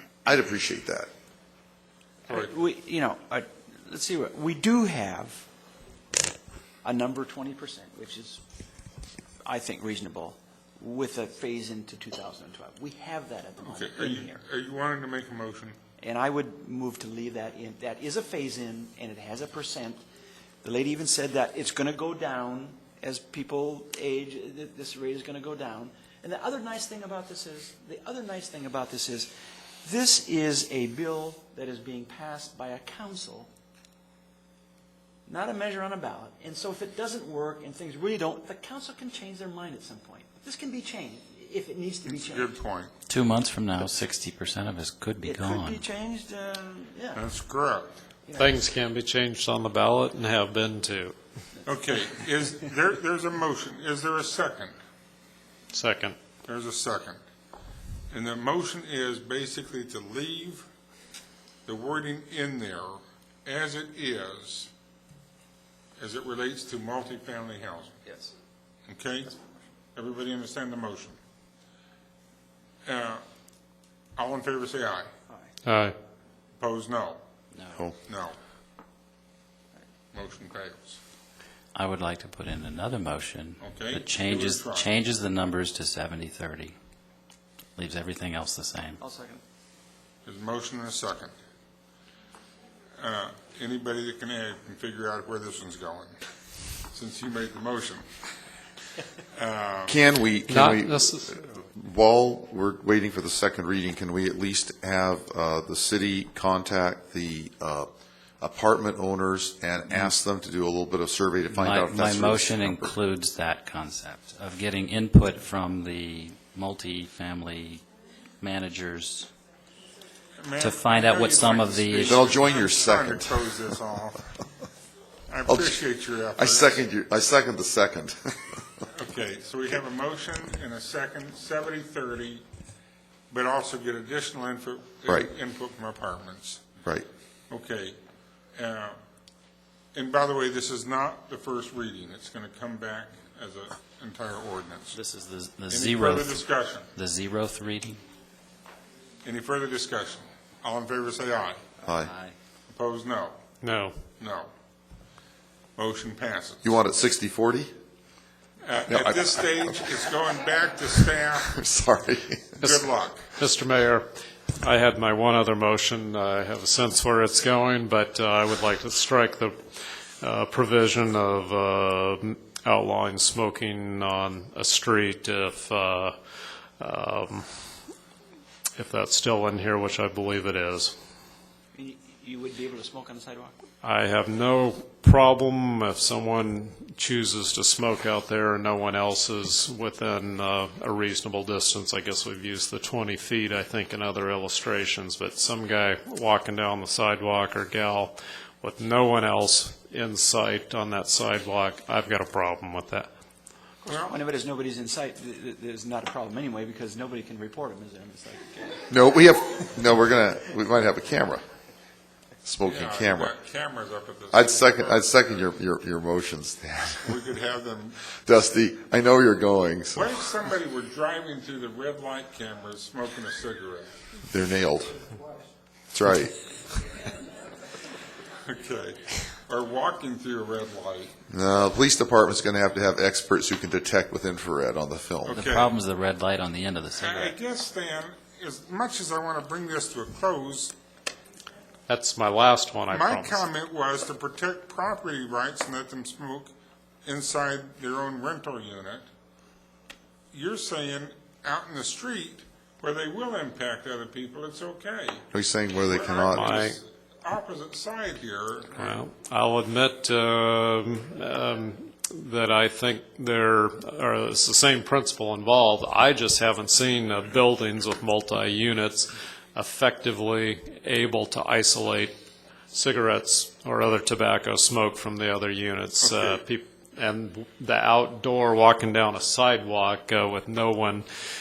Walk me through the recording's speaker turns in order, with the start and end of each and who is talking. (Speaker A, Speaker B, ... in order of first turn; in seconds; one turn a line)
Speaker A: 0.2-1.1
Speaker B: 2.3-5.5
Speaker B: 6.8-8.4
Speaker B: 9.4-14.4
Speaker C: 13.6-15.8
Speaker B: 16.0-20.0
Speaker B: 20.6-29.3
Speaker B: 29.8-33.5
Speaker B: 35.3-42.6
Speaker C: 42.1-42.9
Speaker D: 43.1-45.8
Speaker B: 45.2-47.4
Speaker C: 47.1-47.9
Speaker B: 48.2-48.7
Speaker E: 48.4-51.1
Speaker C: 51.6-54.7
Speaker B: 51.7-52.1
Speaker E: 55.7-56.1
Speaker C: 56.5-57.2
Speaker C: 58.1-60.6
Speaker C: 61.6-64.7
Speaker C: 66.0-68.0
Speaker C: 68.9-69.3
Speaker C: 69.9-71.2
Speaker C: 72.8-73.2
Speaker C: 74.2-75.1
Speaker E: 75.6-75.9
Speaker C: 76.6-77.2
Speaker D: 77.5-77.9
Speaker C: 78.0-78.4
Speaker C: 80.1-81.0
Speaker D: 81.7-86.7
Speaker C: 83.6-85.0
Speaker D: 87.8-89.0
Speaker B: 89.0-89.4
Speaker C: 90.2-91.3
Speaker C: 93.0-96.2
Speaker C: 96.9-98.0
Speaker C: 99.3-100.0
Speaker A: 99.9-113.0
Speaker E: 100.5-101.2
Speaker D: 111.5-117.8
Speaker D: 118.4-119.3
Speaker C: 120.4-124.2
Speaker D: 120.6-122.5
Speaker A: 122.0-123.4
Speaker C: 125.3-126.9
Speaker A: 125.5-125.8
Speaker A: 126.4-128.4
Speaker C: 128.9-132.4
Speaker C: 133.3-136.7
Speaker C: 137.5-138.0
Speaker C: 138.6-139.0
Speaker C: 139.9-145.0
Speaker D: 144.9-148.0
Speaker C: 145.7-146.9
Speaker C: 149.2-151.6
Speaker A: 151.8-152.1
Speaker D: 152.0-152.3
Speaker C: 152.7-153.4
Speaker E: 153.6-153.9
Speaker C: 154.2-154.5
Speaker C: 155.8-156.7
Speaker A: 156.6-157.7
Speaker C: 158.6-161.5
Speaker A: 158.8-160.0
Speaker A: 161.5-162.7
Speaker C: 162.6-163.3
Speaker E: 163.4-176.1
Speaker E: 176.8-177.5
Speaker E: 178.8-180.9
Speaker B: 181.7-183.6
Speaker E: 183.8-203.1
Speaker B: 203.8-209.0
Speaker C: 203.8-204.1
Speaker A: 208.9-211.4
Speaker A: 212.4-213.3
Speaker C: 212.6-215.4
Speaker A: 214.3-217.2
Speaker C: 217.0-218.0
Speaker A: 218.2-220.1
Speaker C: 219.9-223.9
Speaker A: 224.3-225.0
Speaker A: 225.9-226.3
Speaker C: 228.4-231.2
Speaker A: 231.3-235.5
Speaker C: 235.2-235.8
Speaker D: 235.4-237.3
Speaker C: 236.9-240.7
Speaker E: 241.9-243.4
Speaker C: 242.9-246.5
Speaker C: 247.0-249.0
Speaker C: 250.3-255.3
Speaker A: 255.3-256.7
Speaker C: 255.8-259.0
Speaker E: 256.3-256.8
Speaker E: 258.8-272.1
Speaker E: 272.7-281.1
Speaker C: 276.0-276.4